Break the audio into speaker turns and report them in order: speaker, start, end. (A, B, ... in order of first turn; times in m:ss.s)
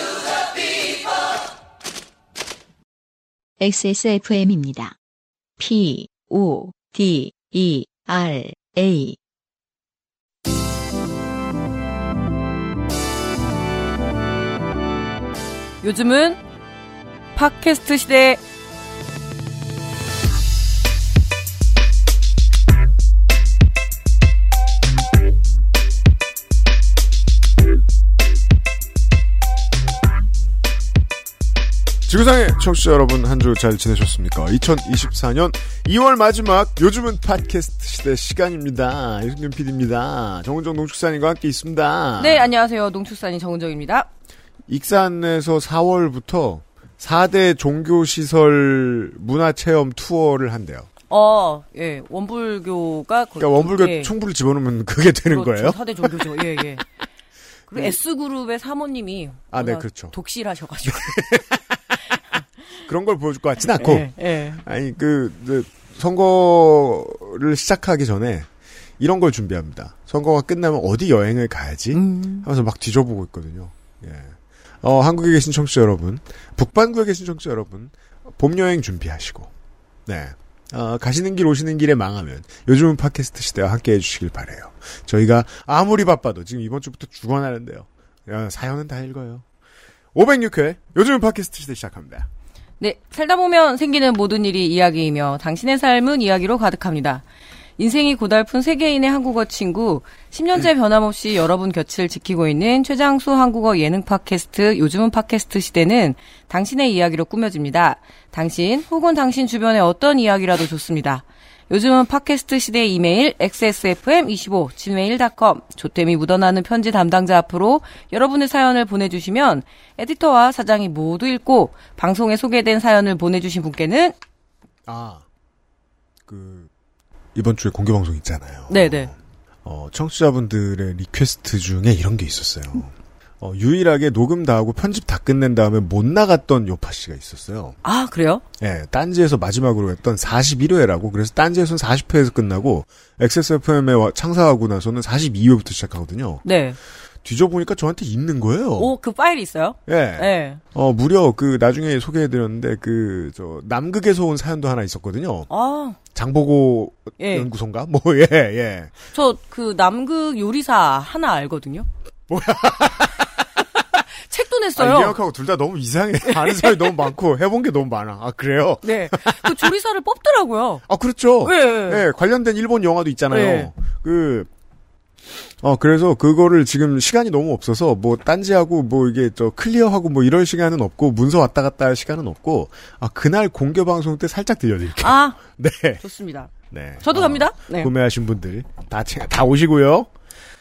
0:03.6-0:04.9 A
0:05.6-0:09.2 A
0:15.8-0:16.4 B
0:17.3-0:18.4 B
0:32.1-0:42.5 C
0:42.2-0:44.1 B
0:44.7-0:50.9 C
0:51.1-0:54.1 B
0:53.4-0:56.4 C
0:55.3-0:56.8 B
0:57.7-1:01.2 B
0:59.5-1:00.1 C
1:00.8-1:01.8 C
1:02.8-1:04.1 C
1:03.8-1:04.6 B
1:04.6-1:08.5 C
1:09.0-1:19.5 C
1:11.9-1:12.4 B
1:20.0-1:29.4 C
1:30.1-1:32.3 C
1:32.8-1:37.2 B
1:37.8-2:04.1 B
2:04.9-2:05.2 C
2:06.2-2:06.7 C
2:07.3-2:17.8 C
2:08.7-2:09.1 B
2:17.8-2:18.4 B
2:18.6-2:26.4 C
2:26.4-2:26.8 B
2:27.2-2:28.9 C
2:28.8-2:30.6 B
2:29.9-2:35.5 C
2:35.5-2:36.0 B
2:36.1-2:38.9 C
2:37.2-2:37.5 B
2:39.1-2:41.9 B
2:42.3-2:43.4 C
2:44.0-2:45.2 B
2:44.8-2:49.5 C
2:46.2-2:47.0 B
2:48.8-2:50.8 B
2:50.9-2:54.5 C
2:51.4-2:52.0 B
2:53.3-2:53.7 B
2:55.6-3:06.0 C
3:05.0-3:05.4 B
3:06.0-3:07.9 B
3:06.7-3:10.1 C